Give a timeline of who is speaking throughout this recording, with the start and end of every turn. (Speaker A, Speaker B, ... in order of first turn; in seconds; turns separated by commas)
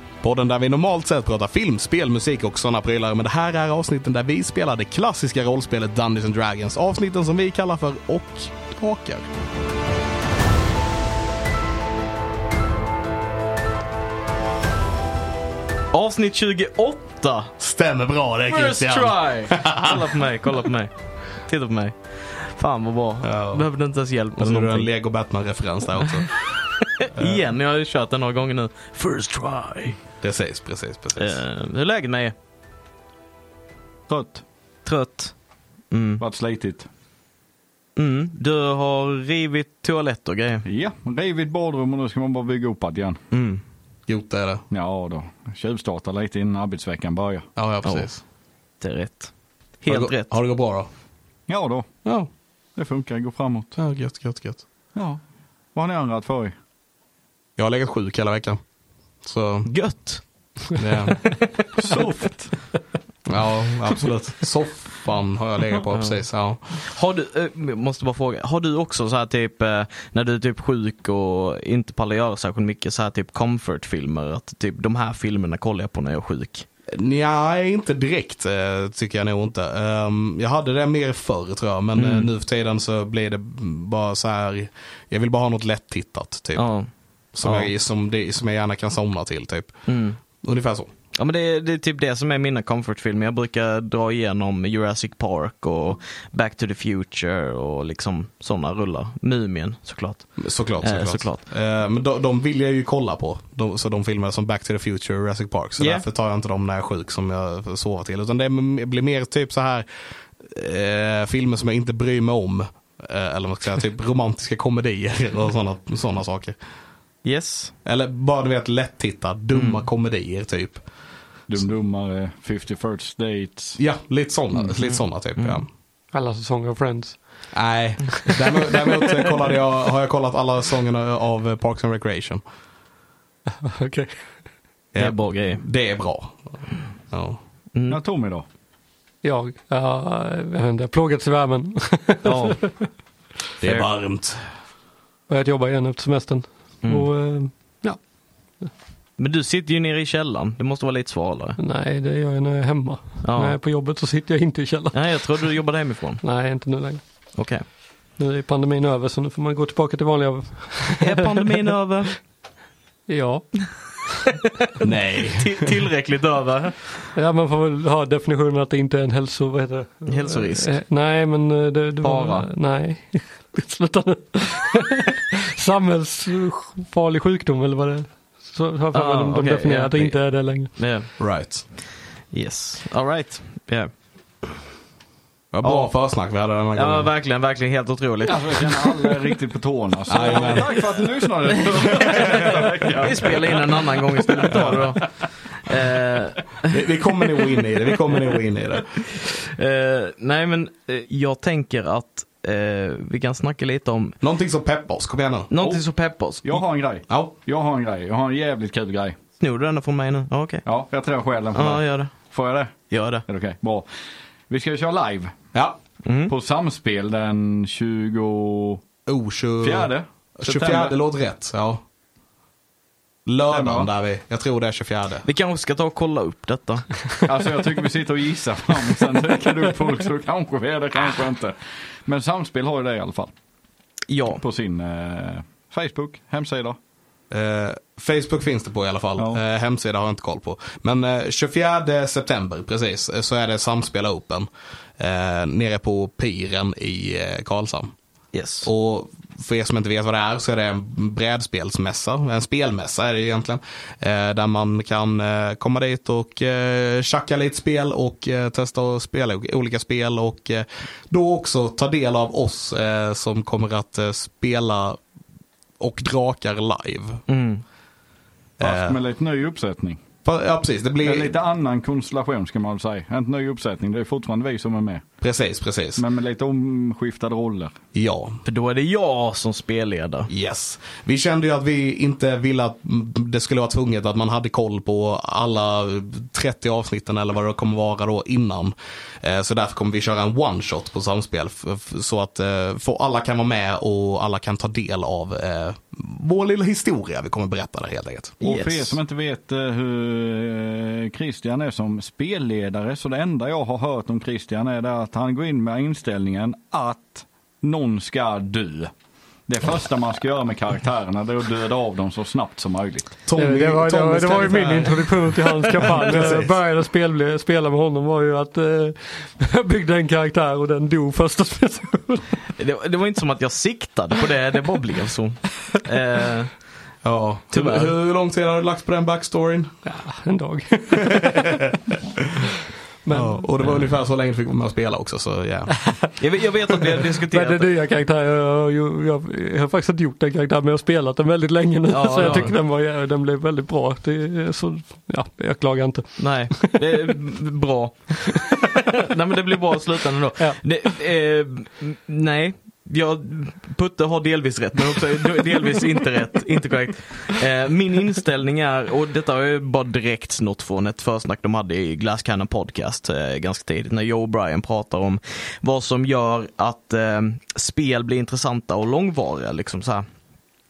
Speaker A: 0.2-9.3, Speaker B: 15.9-17.5, Speaker A: 17.6-20.0, Speaker B: 18.5-24.9, Speaker A: 23.2-23.6, Speaker A: 24.4-26.3, Speaker B: 26.5-30.0, Speaker A: 27.2-27.4, Speaker A: 30.2-31.4, Speaker B: 31.2-32.3, Speaker C: 34.1-34.4, Speaker B: 34.9-35.4, Speaker B: 35.9-36.2, Speaker C: 36.2-36.9, Speaker B: 38.0-40.6, Speaker C: 40.6-43.2, Speaker B: 43.3-43.6, Speaker A: 44.1-44.6, Speaker C: 44.7-47.5, Speaker A: 47.6-48.2, Speaker B: 47.8-48.1, Speaker B: 48.8-50.4, Speaker A: 49.9-50.9, Speaker C: 51.5-52.1, Speaker C: 52.8-53.8, Speaker A: 53.8-54.6, Speaker C: 55.0-55.2, Speaker C: 55.7-56.5, Speaker A: 57.6-58.6, Speaker A: 59.2-59.7, Speaker B: 59.6-60.3, Speaker A: 60.8-61.3, Speaker C: 61.8-62.6, Speaker A: 63.3-66.8, Speaker B: 65.9-66.2, Speaker B: 66.8-76.7, Speaker A: 76.9-86.7, Speaker B: 82.0-82.3, Speaker B: 86.5-86.9, Speaker A: 87.3-90.9, Speaker B: 87.4-87.7, Speaker B: 89.9-90.2, Speaker B: 91.1-101.4, Speaker A: 100.4-109.9, Speaker B: 105.8-106.1, Speaker A: 110.4-116.5, Speaker B: 117.2-117.7, Speaker A: 117.8-120.8, Speaker B: 119.5-119.8, Speaker C: 121.5-123.8, Speaker A: 123.8-125.7, Speaker B: 124.8-125.6, Speaker D: 126.1-127.5, Speaker A: 127.5-132.4, Speaker D: 128.4-129.3, Speaker D: 133.6-134.4, Speaker A: 134.9-137.4, Speaker B: 135.0-135.6, Speaker B: 137.7-138.0, Speaker C: 137.9-138.4, Speaker D: 139.2-142.9, Speaker B: 142.2-142.7, Speaker A: 143.6-144.4, Speaker D: 145.3-148.7, Speaker B: 146.8-147.1, Speaker B: 149.2-151.6, Speaker D: 151.6-155.4, Speaker B: 153.2-153.6, Speaker B: 154.9-156.2, Speaker D: 156.2-157.1, Speaker B: 157.3-157.7, Speaker D: 158.2-161.3, Speaker B: 161.0-162.2, Speaker D: 163.1-164.1, Speaker A: 164.8-165.7, Speaker B: 164.8-167.1, Speaker D: 167.2-180.8, Speaker B: 170.1-170.8, Speaker B: 172.0-172.5, Speaker B: 178.9-181.1, Speaker A: 181.2-181.7, Speaker B: 182.3-183.9, Speaker A: 185.5-187.1, Speaker C: 185.6-185.9, Speaker B: 186.8-189.1, Speaker C: 188.2-195.1, Speaker A: 190.1-190.8, Speaker B: 192.0-196.8, Speaker A: 192.0-192.6, Speaker A: 196.7-199.0, Speaker B: 199.1-204.2, Speaker A: 204.2-205.5, Speaker B: 205.5-206.6, Speaker C: 205.6-209.2, Speaker A: 207.1-207.3, Speaker B: 209.4-210.7, Speaker C: 210.7-213.9, Speaker B: 211.5-212.2, Speaker B: 212.9-213.2, Speaker C: 214.5-215.4, Speaker B: 216.0-216.3, Speaker C: 216.3-218.8, Speaker A: 219.1-221.8, Speaker C: 219.6-220.9, Speaker A: 223.3-225.2, Speaker C: 223.5-223.9, Speaker B: 225.2-226.9, Speaker C: 227.2-233.3, Speaker B: 234.1-234.4, Speaker C: 234.4-236.8, Speaker A: 237.3-247.9, Speaker B: 248.3-248.7, Speaker A: 248.6-265.0, Speaker A: 265.8-267.2, Speaker B: 267.3-267.6, Speaker A: 268.6-269.0, Speaker C: 268.6-270.0, Speaker A: 270.2-271.4, Speaker C: 271.0-275.0, Speaker A: 275.2-276.0, Speaker C: 276.0-277.8, Speaker A: 277.9-278.4, Speaker B: 278.4-280.3, Speaker A: 280.3-298.4, Speaker B: 298.4-299.0, Speaker C: 298.4-308.9, Speaker C: 309.5-313.1, Speaker A: 313.3-315.2, Speaker D: 313.4-322.3, Speaker A: 315.8-316.6, Speaker B: 322.6-326.6, Speaker A: 327.0-329.8, Speaker B: 327.5-327.9, Speaker D: 329.8-331.7, Speaker A: 331.1-331.4, Speaker D: 333.0-333.5, Speaker A: 333.1-336.1, Speaker B: 336.2-337.7, Speaker D: 337.3-346.8, Speaker B: 341.9-342.5, Speaker B: 346.2-370.1